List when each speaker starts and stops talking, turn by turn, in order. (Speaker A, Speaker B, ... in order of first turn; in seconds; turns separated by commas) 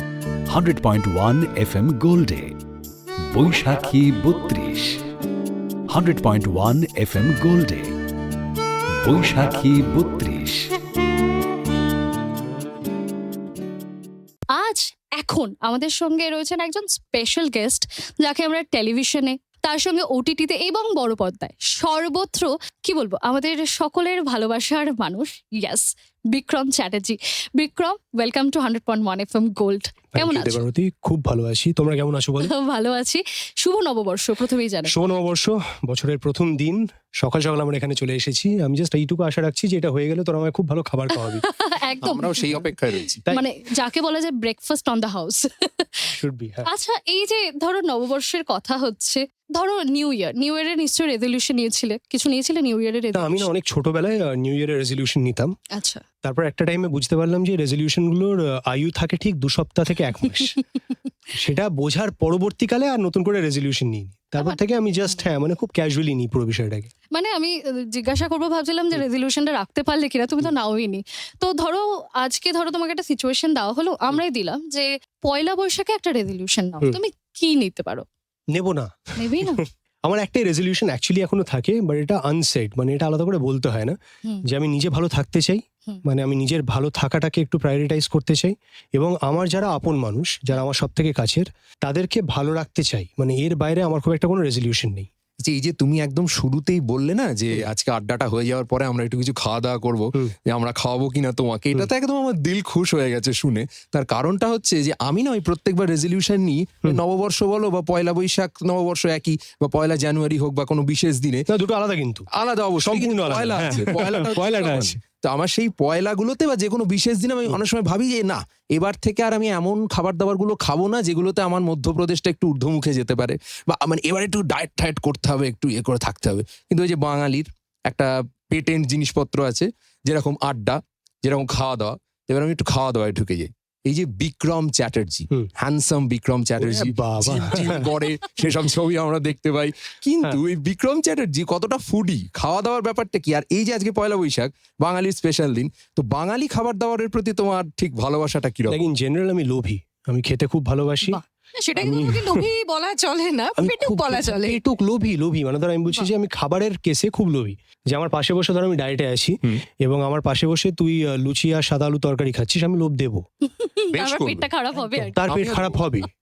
Speaker A: 0.5-2.5, Speaker A: 3.3-5.0, Speaker A: 5.9-7.9, Speaker A: 9.0-10.7, Speaker B: 14.5-30.6, Speaker C: 30.1-32.5, Speaker B: 32.4-34.9, Speaker C: 34.9-41.4, Speaker B: 41.4-42.5, Speaker D: 42.0-43.2, Speaker B: 43.3-46.1, Speaker C: 46.1-46.7, Speaker B: 46.6-53.5, Speaker C: 53.1-55.5, Speaker B: 55.7-56.0, Speaker C: 56.2-60.6, Speaker C: 61.3-66.9, Speaker B: 67.1-78.0, Speaker C: 78.5-95.1, Speaker B: 79.2-79.6, Speaker D: 95.4-111.5, Speaker C: 111.5-112.3, Speaker D: 112.3-148.8, Speaker C: 112.8-115.0, Speaker C: 136.6-137.9, Speaker C: 148.7-151.2, Speaker E: 151.6-154.6, Speaker C: 151.8-152.5, Speaker C: 153.6-163.3, Speaker B: 163.5-165.2, Speaker D: 163.9-164.5, Speaker C: 164.9-166.1, Speaker D: 165.2-165.8